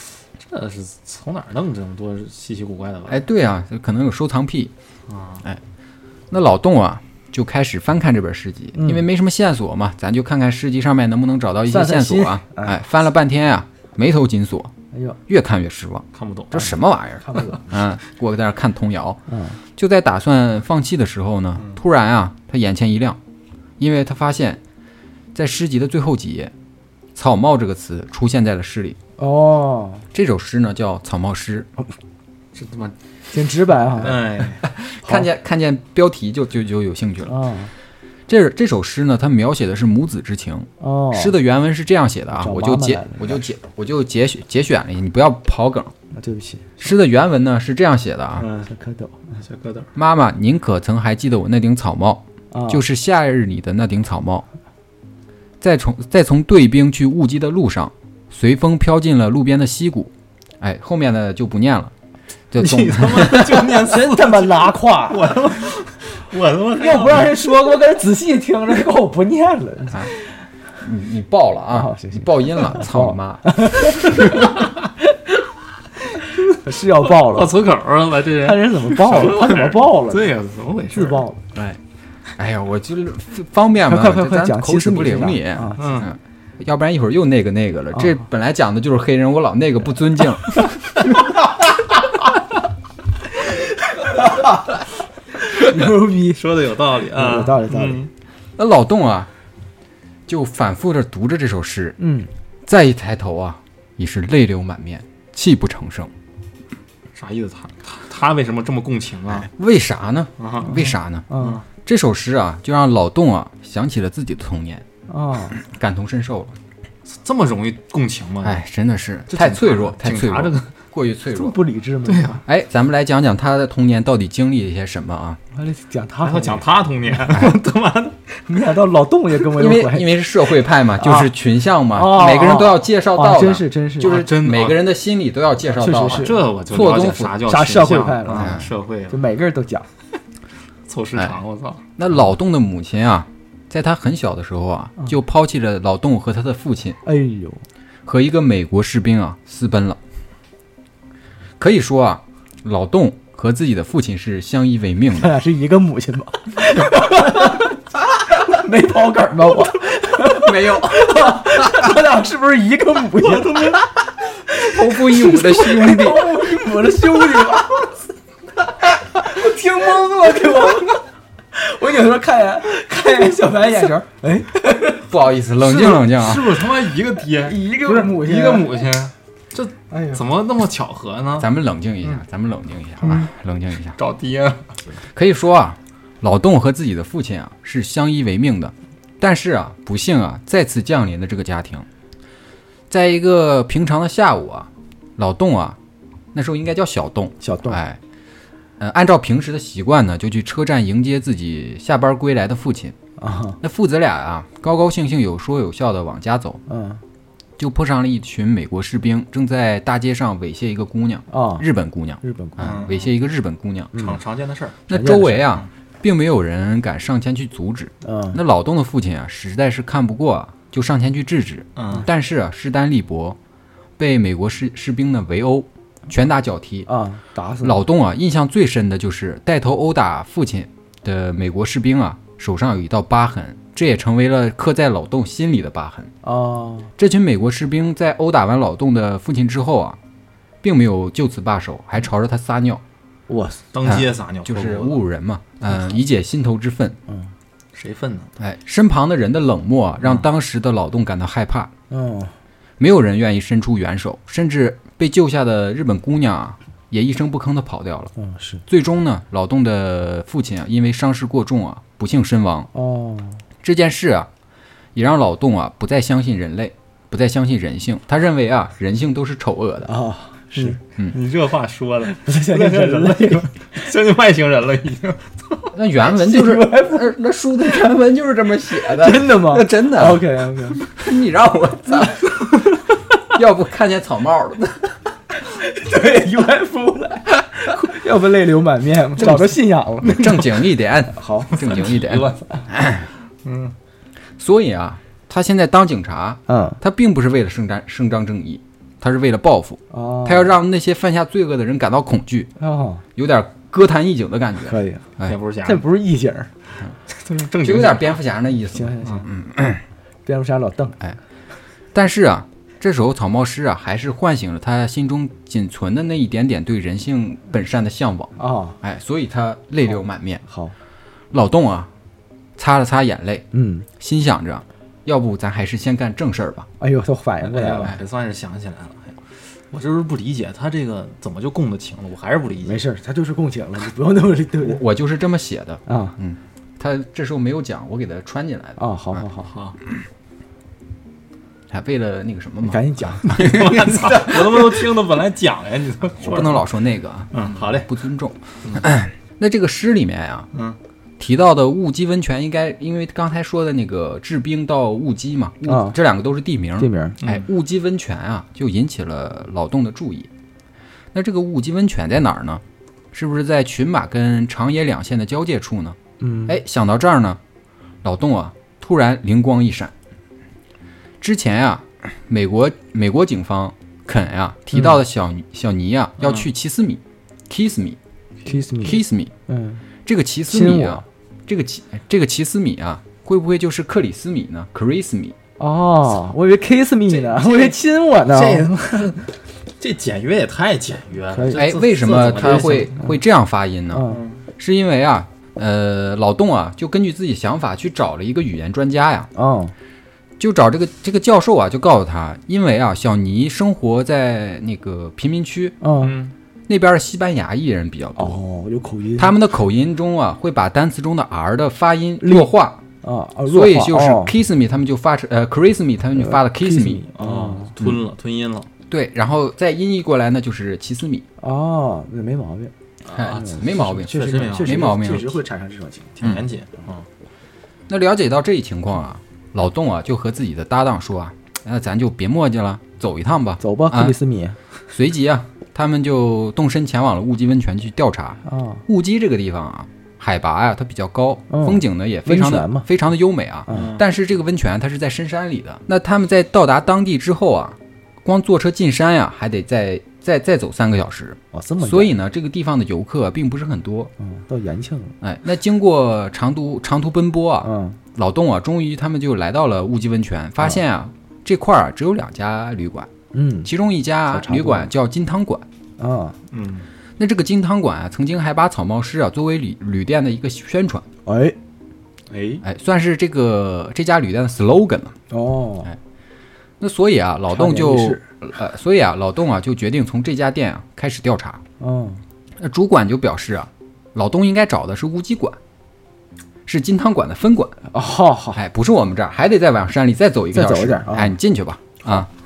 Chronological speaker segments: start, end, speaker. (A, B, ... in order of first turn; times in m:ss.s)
0:00.4-0:03.2 A
0:03.1-0:04.7 B
0:05.1-0:05.4 A
0:06.3-0:14.7 B
0:08.8-0:09.0 C
0:11.7-0:12.8 C
0:14.9-0:15.2 C
0:15.3-0:19.2 B
0:16.1-0:16.8 A
0:17.2-0:17.7 C
0:19.3-0:19.6 C
0:19.8-0:23.2 B
0:23.8-0:24.6 B
0:25.3-0:26.5 B
0:27.2-0:29.0 B
0:29.2-0:30.0 C
0:30.1-0:31.7 B
0:32.6-0:33.0 A
0:33.3-0:34.3 C
0:34.0-0:34.6 A
0:34.6-0:37.4 B
0:37.3-0:37.7 C
0:38.3-0:45.9 B
0:40.8-0:41.4 C
0:42.3-0:43.4 C
0:46.1-0:46.8 C
0:46.8-0:48.5 B
0:48.4-0:48.7 A
0:48.7-0:49.3 C
0:49.4-0:49.9 A
0:50.0-0:54.4 B
0:52.5-0:52.8 C
0:55.6-1:01.9 B
1:02.5-1:03.7 B
1:02.6-1:07.4 A
1:03.7-1:05.4 C
1:06.8-1:10.2 C
1:10.8-1:14.2 B
1:11.7-1:15.2 C
1:16.5-1:17.6 C
1:17.0-1:21.3 A
1:18.4-1:20.3 C
1:20.9-1:21.4 C
1:21.6-1:21.8 B
1:22.4-1:30.9 B
1:23.9-1:26.0 C
1:25.8-1:26.1 A
1:33.9-1:34.7 C
1:35.4-1:36.4 C
1:36.3-1:38.1 A
1:37.1-1:38.1 C
1:38.6-1:39.3 B
1:40.3-1:42.0 B
1:42.0-1:42.3 C
1:42.6-1:46.1 B
1:47.2-1:49.5 A
1:49.4-1:54.8 B
1:50.4-1:51.6 A
1:51.3-1:51.6 C
1:55.1-1:55.6 C
1:55.5-1:56.6 B
1:57.1-1:58.6 A
1:58.4-2:01.6 B
1:59.3-2:00.7 A
2:01.3-2:02.4 C
2:02.0-2:02.4 A
2:02.5-2:05.4 B
2:05.6-2:06.6 C
2:06.2-2:08.4 A
2:08.5-2:10.2 C
2:09.5-2:17.4 B
2:11.0-2:11.3 C
2:11.9-2:14.2 C
2:14.0-2:14.9 A
2:15.8-2:19.2 A
2:15.8-2:16.4 C
2:17.4-2:19.9 C
2:18.3-2:18.7 B
2:20.9-2:21.8 A
2:22.0-2:27.0 B
2:27.0-2:27.6 C
2:28.1-2:30.0 B
2:31.6-2:35.4 B
2:35.1-2:37.8 C
2:38.3-2:43.8 C
2:40.2-2:41.9 B
2:43.2-2:43.7 A
2:44.5-2:47.9 C
2:44.6-2:46.4 B
2:49.1-2:51.0 C
2:51.5-2:55.1 C
2:55.1-2:56.6 B
2:55.6-3:01.5 A
2:57.4-2:58.8 C
2:59.9-3:00.2 C
3:01.4-3:04.0 B
3:04.0-3:04.8 A
3:05.1-3:11.9 B
3:12.9-3:15.8 B
3:16.3-3:18.0 B
3:17.4-3:17.8 C
3:18.8-3:23.0 B
3:23.2-3:23.6 C
3:23.6-3:26.6 B
3:26.7-3:27.0 C
3:27.6-3:34.0 B
3:31.3-3:31.7 C
3:32.2-3:32.9 C
3:32.6-3:33.1 A
3:33.9-3:34.2 C
3:34.0-3:34.8 A
3:34.9-3:43.4 B
3:34.9-3:35.5 C
3:38.0-3:38.4 C
3:41.8-3:42.1 A
3:44.0-3:46.9 B
3:46.9-3:47.8 C
3:47.6-3:56.1 B
3:56.2-3:56.9 C
3:57.0-4:00.0 B
4:00.6-4:02.8 B
4:03.3-4:03.7 C
4:03.7-4:05.0 A
4:03.8-4:07.0 B
4:07.7-4:08.3 A
4:08.4-4:11.7 B
4:11.9-4:12.3 C
4:12.8-4:18.1 B
4:18.2-4:18.6 C
4:18.7-4:22.7 B
4:22.7-4:23.4 C
4:23.6-4:24.3 B
4:25.0-4:29.9 B
4:29.8-4:30.8 C
4:30.6-4:35.7 A
4:32.1-4:33.5 C
4:35.7-4:40.2 B
4:36.1-4:37.1 C
4:38.8-4:40.8 C
4:40.8-4:42.5 B
4:43.3-4:45.0 B
4:45.4-4:50.4 C
4:49.2-4:53.1 B
4:50.1-4:50.4 A
4:51.1-4:51.6 C
4:51.5-4:52.5 A
4:53.4-4:53.7 A
4:54.4-5:02.5 B
4:56.5-4:56.8 C
4:59.9-5:00.6 C
5:02.6-5:03.0 C
5:03.2-5:05.4 B
5:04.6-5:05.1 C
5:05.2-5:05.8 A
5:05.6-5:06.5 C
5:07.1-5:08.2 A
5:07.6-5:09.8 B
5:08.7-5:09.3 C
5:10.3-5:11.0 C
5:11.9-5:20.4 B
5:18.4-5:18.8 C
5:20.5-5:20.7 C
5:21.3-5:21.9 B
5:22.6-5:23.5 B
5:23.5-5:23.9 C
5:24.0-5:26.7 B
5:26.8-5:27.9 C
5:27.4-5:29.2 A
5:29.7-5:32.8 A
5:32.6-5:34.8 C
5:34.6-5:39.2 B
5:35.9-5:36.2 C
5:38.8-5:39.5 C
5:39.5-5:39.8 A
5:41.7-5:44.6 B
5:42.6-5:43.6 C
5:43.2-5:46.6 A
5:46.2-5:50.5 B
5:47.3-5:47.9 A
5:50.5-5:50.8 A
5:51.2-6:00.3 B
5:55.6-5:56.0 C
5:56.8-5:57.2 C
5:57.2-5:57.5 A
6:01.1-6:07.4 B
6:06.2-6:06.6 C
6:08.0-6:09.9 B
6:11.2-6:18.0 B
6:16.2-6:16.5 A
6:18.5-6:19.8 C
6:18.8-6:19.3 B
6:20.0-6:25.4 B
6:20.5-6:21.0 C
6:25.6-6:29.0 C
6:27.1-6:29.2 A
6:29.8-6:33.0 A
6:31.3-6:31.6 C
6:31.6-6:39.3 B
6:32.7-6:33.1 C
6:33.9-6:34.2 C
6:34.1-6:34.4 A
6:39.4-6:39.7 C
6:40.4-6:45.8 B
6:45.8-6:46.2 C
6:46.0-6:46.3 A
6:46.7-6:48.4 B
6:48.2-6:49.4 C
6:49.2-6:52.8 B
6:52.2-6:52.5 C
6:53.0-6:54.3 C
6:53.5-6:57.0 B
6:56.2-6:57.8 C
6:57.2-6:58.7 A
6:58.9-7:01.2 B
7:01.4-7:06.2 C
7:03.1-7:05.3 B
7:03.1-7:05.2 A
7:06.2-7:07.1 A
7:07.9-7:14.2 B
7:13.6-7:14.6 C
7:14.9-7:34.1 B
7:18.5-7:18.8 C
7:21.5-7:22.9 C
7:23.7-7:24.0 A
7:31.5-7:32.1 C
7:34.2-7:35.2 C
7:35.2-7:43.1 B
7:37.6-7:38.0 C
7:43.3-7:43.7 C
7:43.6-7:45.6 B
7:44.3-7:44.9 C
7:46.0-7:46.4 C
7:46.5-7:46.9 A
7:47.2-7:51.1 B
7:51.3-7:51.6 C
7:52.3-7:52.6 A
7:52.6-7:55.2 B
7:55.3-7:55.9 C
7:56.8-8:01.6 B
7:57.5-7:58.2 C
8:01.8-8:02.2 C
8:02.6-8:05.6 B
8:06.7-8:07.8 B
8:07.9-8:08.6 C
8:08.6-8:12.3 B
8:10.5-8:11.4 C